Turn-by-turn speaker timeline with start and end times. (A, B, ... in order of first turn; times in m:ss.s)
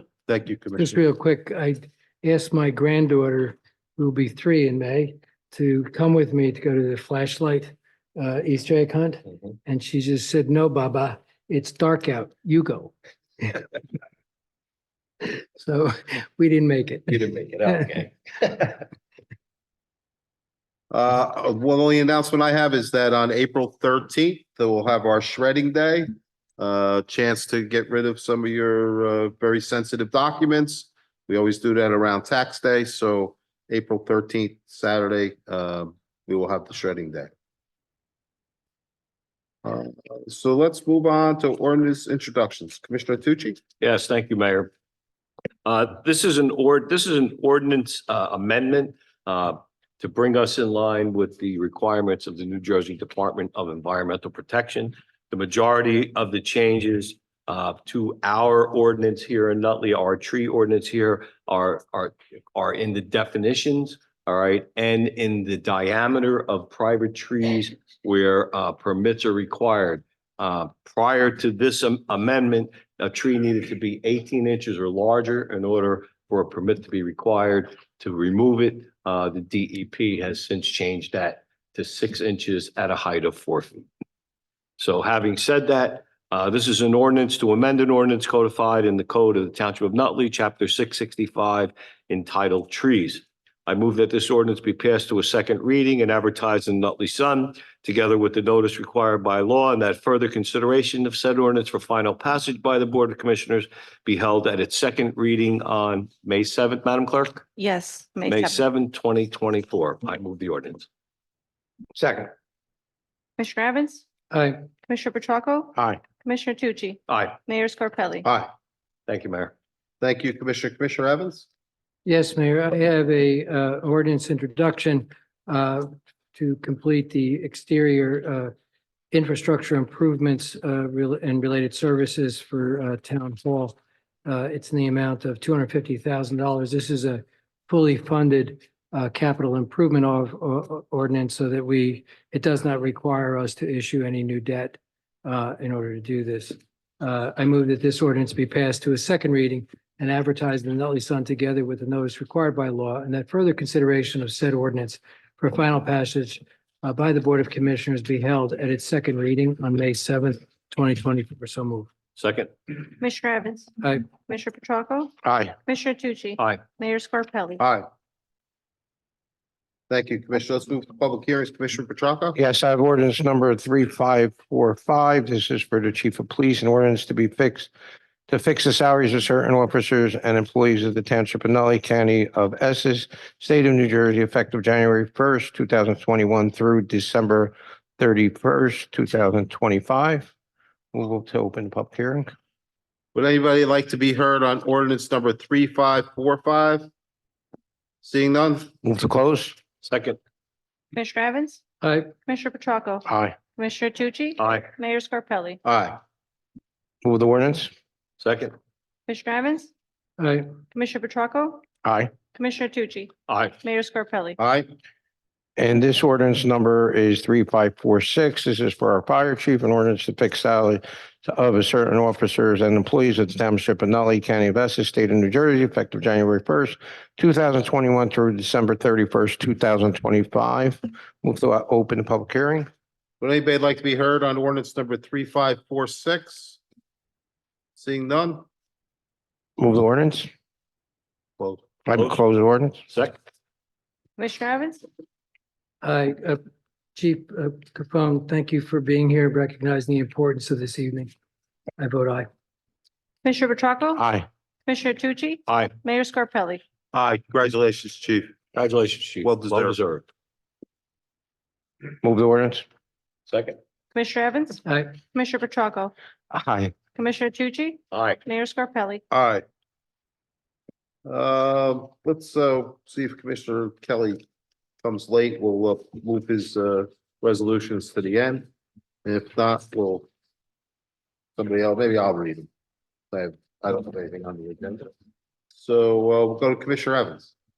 0:00.3-0:01.0 A
0:00.8-0:13.7 B
0:15.2-0:18.1 B
0:17.2-0:18.7 C
0:20.9-0:37.3 A
0:39.6-0:43.6 A
0:43.8-0:44.7 C
0:45.6-1:23.8 C
1:24.8-1:47.4 C
1:47.6-1:48.6 D
1:48.2-1:50.8 C
1:52.0-1:52.3 E
1:53.4-1:54.1 D
1:54.3-1:54.7 B
1:54.8-1:58.2 D
1:57.1-1:57.4 C
1:58.2-1:58.5 A
1:59.1-1:59.5 C
2:00.0-2:01.4 A
2:02.0-2:08.5 B
2:09.1-2:41.9 B
2:42.2-2:42.5 C
2:43.0-2:45.1 D
2:45.2-2:45.6 E
2:45.6-2:47.6 D
2:47.6-2:47.8 A
2:49.9-2:52.4 A
2:52.4-2:57.7 E
2:58.3-3:10.3 E
3:10.9-3:12.3 E
3:13.1-3:16.9 A
3:18.0-3:18.7 A
3:18.8-3:19.6 E
3:19.8-3:20.2 C
3:20.9-3:21.6 D
3:21.8-3:22.1 B
3:22.2-3:25.6 D
3:23.0-3:23.3 E
3:24.4-3:24.7 C
3:25.6-3:26.0 A
3:27.0-3:27.7 E
3:28.2-3:28.5 C
3:29.1-3:29.7 D
3:30.2-3:30.5 B
3:30.7-3:31.6 D
3:31.8-3:32.1 E
3:32.4-3:34.4 D
3:33.3-3:33.6 C
3:34.4-3:34.7 A
3:35.6-3:52.7 E
3:53.2-3:56.6 A
3:57.8-3:58.4 A
3:59.6-4:00.3 E
4:01.8-4:02.8 E
4:02.9-4:03.1 C
4:04.2-4:04.8 D
4:05.8-4:06.4 B
4:06.9-4:11.1 B
4:11.8-4:12.3 B
4:13.2-4:14.0 D
4:14.0-4:14.2 E
4:14.7-4:16.6 D
4:15.5-4:15.7 C
4:16.9-4:18.3 A
4:18.5-4:20.0 C
4:19.2-4:19.8 A
4:22.0-4:22.6 E
4:23.3-4:23.6 C
4:23.9-4:25.9 D
4:24.6-4:24.9 B
4:26.3-4:26.7 E
4:26.9-4:29.0 D
4:27.9-4:28.2 C
4:29.1-4:29.4 A
4:31.0-4:34.2 A
4:34.8-4:38.5 A
4:39.0-4:40.1 A
4:41.4-4:42.5 A
4:43.1-4:44.9 A
4:45.6-4:47.3 A